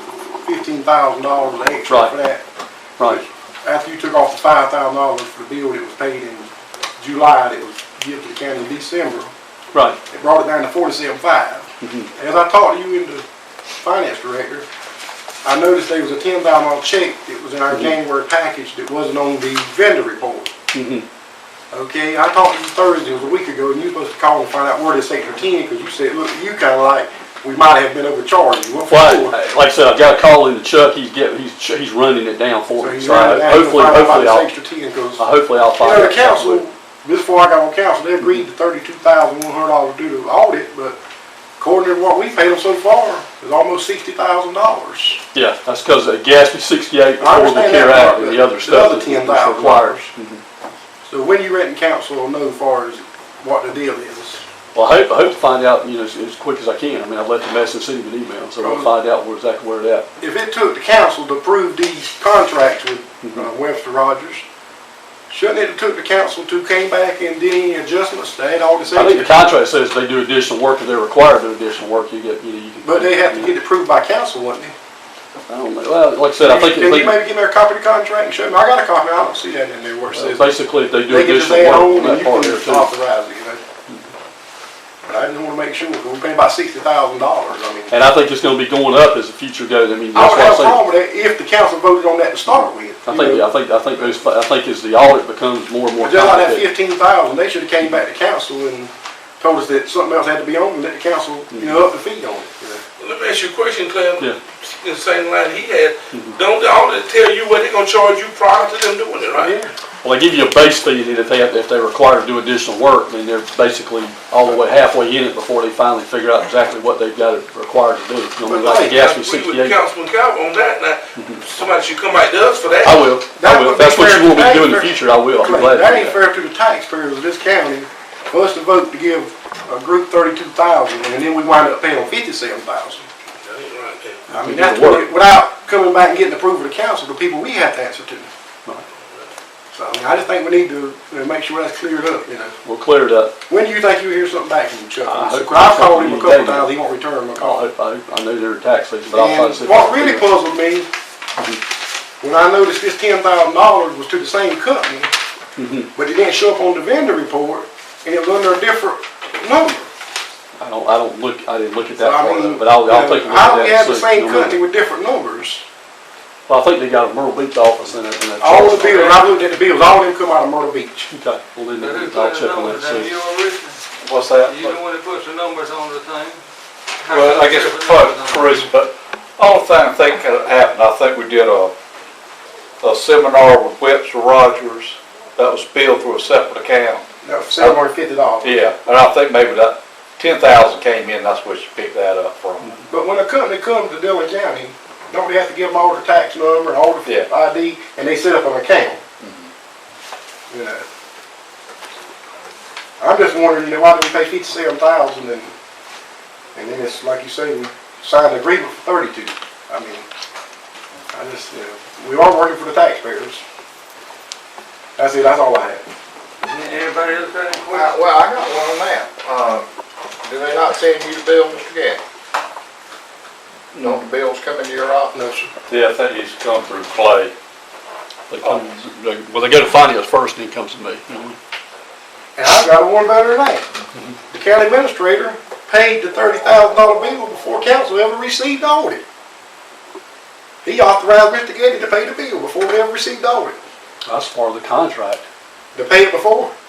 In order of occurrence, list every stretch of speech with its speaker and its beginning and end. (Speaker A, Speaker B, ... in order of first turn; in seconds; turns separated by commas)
Speaker A: 0.4-2.4, Speaker B: 1.9-2.1, Speaker A: 3.0-6.5, Speaker A: 7.0-9.3, Speaker A: 10.1-13.2, Speaker B: 11.8-12.1, Speaker A: 13.8-14.7, Speaker A: 15.4-20.5, Speaker B: 20.7-21.0, Speaker A: 21.7-29.4, Speaker B: 28.9-34.5, Speaker A: 32.8-35.2, Speaker B: 35.2-36.6, Speaker A: 35.8-41.0, Speaker A: 41.6-45.2, Speaker B: 45.3-50.4, Speaker A: 47.2-50.1, Speaker A: 51.0-54.4, Speaker B: 54.7-60.1, Speaker A: 58.6-58.9, Speaker A: 60.2-64.4, Speaker A: 65.3-69.4, Speaker B: 68.9-73.5, Speaker A: 72.8-74.7, Speaker B: 75.5-77.2, Speaker A: 76.4-80.5, Speaker B: 80.1-82.9, Speaker A: 81.0-83.6, Speaker A: 85.1-87.9, Speaker B: 87.9-90.8, Speaker A: 90.1-93.5, Speaker B: 93.0-96.7, Speaker A: 96.0-102.8, Speaker C: 103.0-109.5, Speaker A: 109.3-109.7, Speaker B: 110.0-119.8, Speaker A: 118.5-119.0, Speaker C: 118.7-123.1, Speaker B: 122.8-126.2, Speaker A: 123.4-133.1, Speaker C: 133.4-134.2, Speaker A: 134.3-138.3, Speaker B: 134.3-135.1, Speaker A: 139.7-142.5, Speaker B: 142.6-143.3, Speaker A: 143.5-147.6, Speaker B: 145.0-146.7, Speaker B: 147.4-150.3, Speaker A: 149.1-150.9, Speaker A: 152.2-155.1, Speaker B: 155.6-155.9, Speaker A: 155.9-159.9, Speaker B: 160.6-164.6, Speaker A: 162.0-165.6, Speaker B: 166.5-169.3, Speaker A: 168.4-171.1, Speaker B: 171.1-173.1, Speaker D: 171.8-173.8, Speaker E: 174.0-174.8, Speaker D: 174.3-176.4, Speaker D: 177.0-178.7, Speaker E: 177.1-181.7, Speaker E: 182.8-187.0, Speaker A: 187.2-188.6, Speaker E: 188.4-192.7, Speaker A: 192.9-199.0, Speaker E: 199.2-199.5, Speaker A: 200.5-200.8, Speaker A: 203.0-205.5, Speaker A: 206.5-210.1, Speaker A: 211.1-213.4, Speaker A: 215.0-215.8, Speaker D: 216.4-218.1, Speaker F: 217.7-219.7, Speaker F: 220.2-222.0, Speaker E: 223.7-225.0, Speaker F: 223.8-225.1, Speaker A: 225.1-225.5, Speaker E: 225.7-227.3, Speaker B: 228.3-231.4, Speaker A: 232.3-233.7, Speaker A: 234.3-239.0, Speaker A: 240.6-243.6, Speaker B: 244.1-245.2, Speaker A: 245.7-246.5